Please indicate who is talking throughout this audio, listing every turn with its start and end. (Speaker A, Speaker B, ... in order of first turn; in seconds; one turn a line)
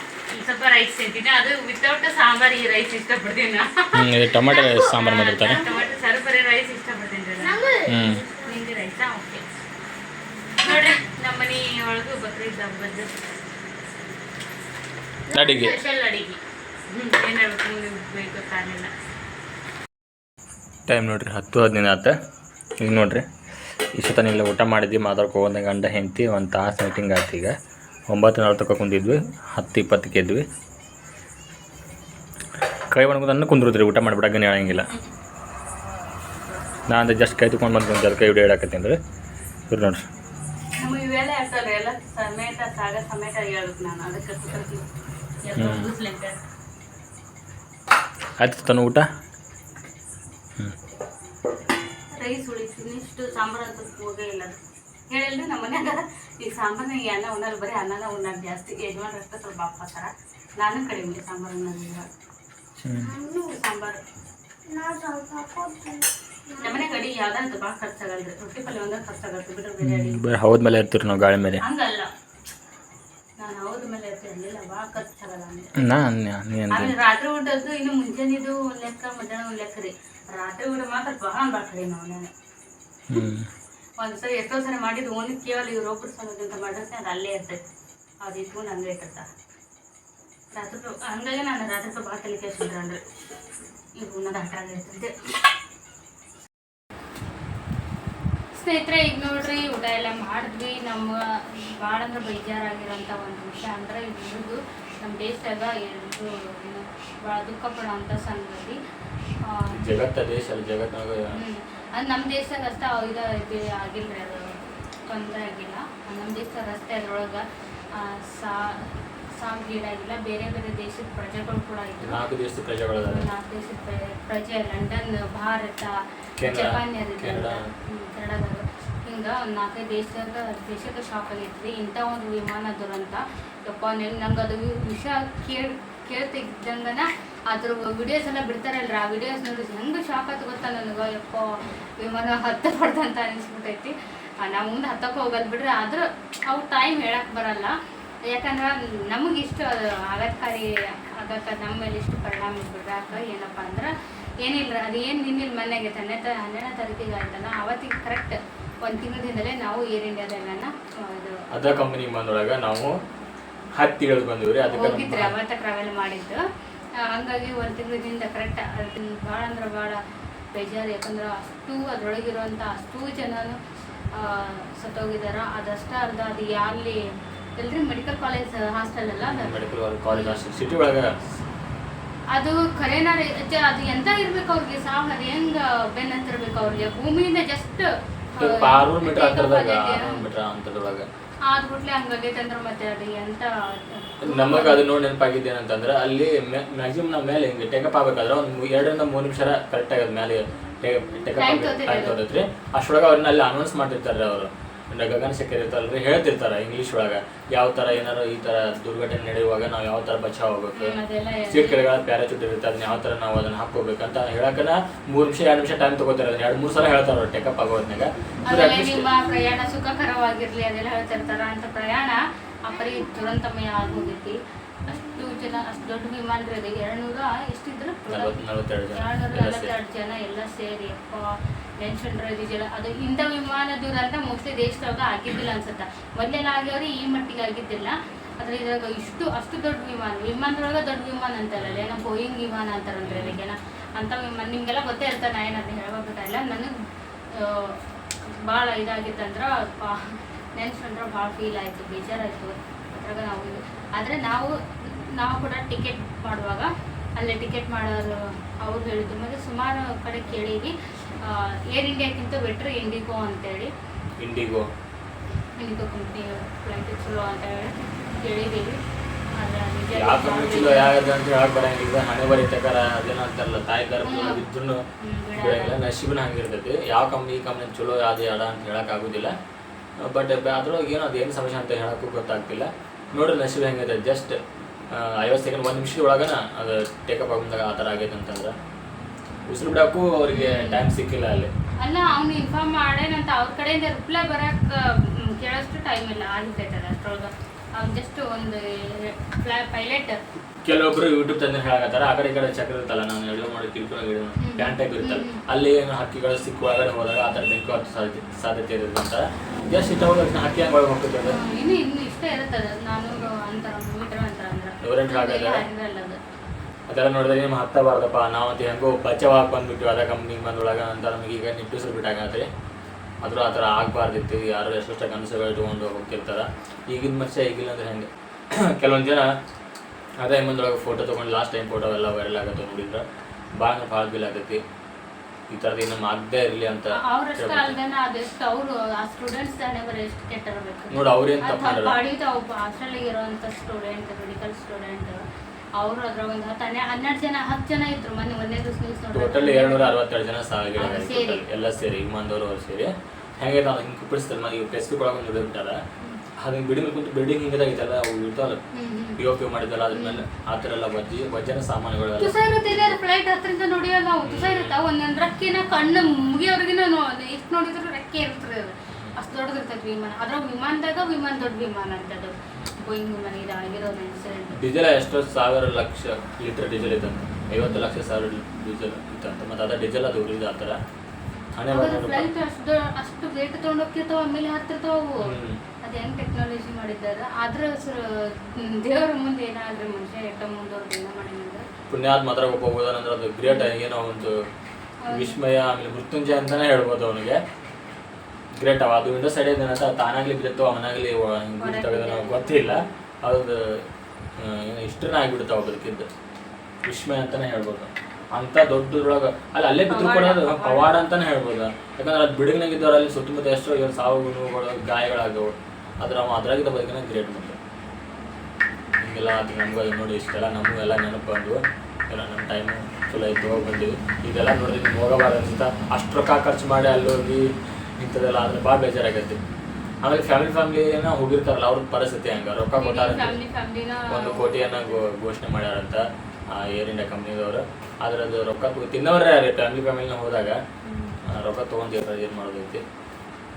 Speaker A: 0.3-4.0
Speaker B: 3.9-5.6
Speaker C: 4.5-5.9
Speaker A: 4.5-7.6
Speaker C: 7.4-8.5
Speaker B: 7.8-8.2
Speaker A: 8.4-9.4
Speaker A: 10.6-13.1
Speaker A: 15.3-18.9
Speaker B: 15.3-15.8
Speaker B: 20.9-22.1
Speaker B: 22.8-23.2
Speaker B: 23.9-27.5
Speaker B: 28.1-30.4
Speaker B: 32.9-34.9
Speaker B: 36.9-39.0
Speaker B: 39.7-40.0
Speaker A: 40.8-44.9
Speaker A: 45.4-46.4
Speaker B: 45.5-45.9
Speaker B: 48.4-49.1
Speaker A: 52.1-54.6
Speaker A: 55.1-62.1
Speaker B: 62.8-63.1
Speaker C: 63.0-63.6
Speaker A: 63.5-64.0
Speaker C: 64.7-66.8
Speaker A: 66.6-70.2
Speaker B: 69.8-71.6
Speaker A: 71.6-72.1
Speaker A: 73.4-75.7
Speaker B: 75.8-76.9
Speaker A: 76.7-82.3
Speaker B: 83.1-83.5
Speaker A: 84.0-87.6
Speaker A: 88.2-89.3
Speaker A: 90.5-93.0
Speaker A: 94.0-95.1
Speaker A: 98.5-108.8
Speaker A: 109.4-109.8
Speaker B: 109.7-111.3
Speaker A: 111.3-122.2
Speaker B: 122.0-123.3
Speaker A: 123.0-147.7
Speaker B: 126.4-127.7
Speaker A: 148.2-161.4
Speaker B: 161.5-162.9
Speaker B: 163.8-165.3
Speaker A: 164.7-166.4
Speaker A: 167.0-170.0
Speaker A: 170.5-173.6
Speaker A: 174.1-177.0
Speaker A: 177.6-179.5
Speaker B: 179.2-181.2
Speaker A: 180.1-180.4
Speaker A: 182.3-190.2
Speaker B: 186.6-186.9
Speaker B: 188.4-191.1
Speaker A: 191.5-194.8
Speaker B: 194.2-219.0
Speaker A: 201.3-202.2
Speaker A: 210.7-211.8
Speaker A: 218.4-228.3
Speaker B: 228.1-229.7
Speaker A: 228.9-231.3
Speaker A: 231.8-246.7
Speaker B: 241.6-241.9
Speaker B: 243.0-243.4
Speaker A: 247.3-263.7
Speaker B: 264.2-264.7
Speaker A: 265.6-268.8
Speaker A: 269.4-271.0
Speaker B: 269.9-274.8
Speaker A: 274.0-274.4
Speaker A: 275.0-275.8
Speaker B: 275.4-279.3
Speaker B: 280.0-284.4
Speaker B: 284.9-288.6
Speaker B: 289.5-291.5
Speaker A: 290.3-290.9
Speaker A: 291.8-300.2
Speaker B: 300.6-311.4
Speaker A: 304.4-305.4
Speaker A: 311.2-316.2
Speaker B: 314.8-315.6
Speaker B: 316.9-322.5
Speaker B: 323.2-329.3
Speaker B: 330.2-333.0
Speaker B: 333.6-334.6
Speaker B: 335.5-337.8
Speaker A: 336.9-345.2
Speaker B: 340.9-342.0
Speaker A: 345.8-349.9
Speaker B: 349.1-355.8
Speaker A: 350.8-351.4
Speaker B: 356.4-358.6
Speaker A: 358.7-359.2
Speaker B: 359.2-363.0
Speaker A: 359.9-360.2
Speaker A: 362.2-374.6
Speaker B: 364.2-364.7
Speaker B: 374.5-380.8
Speaker B: 381.5-382.3
Speaker A: 381.7-391.6
Speaker B: 385.2-385.6
Speaker B: 391.9-394.4
Speaker A: 395.0-395.4
Speaker B: 395.1-397.4
Speaker B: 398.6-403.8
Speaker A: 401.6-402.9
Speaker B: 404.4-406.1
Speaker B: 406.8-417.6
Speaker A: 409.9-411.0
Speaker B: 419.0-429.4
Speaker B: 430.0-433.4
Speaker A: 432.8-435.0
Speaker B: 434.1-440.6
Speaker A: 440.8-441.2
Speaker B: 441.2-442.8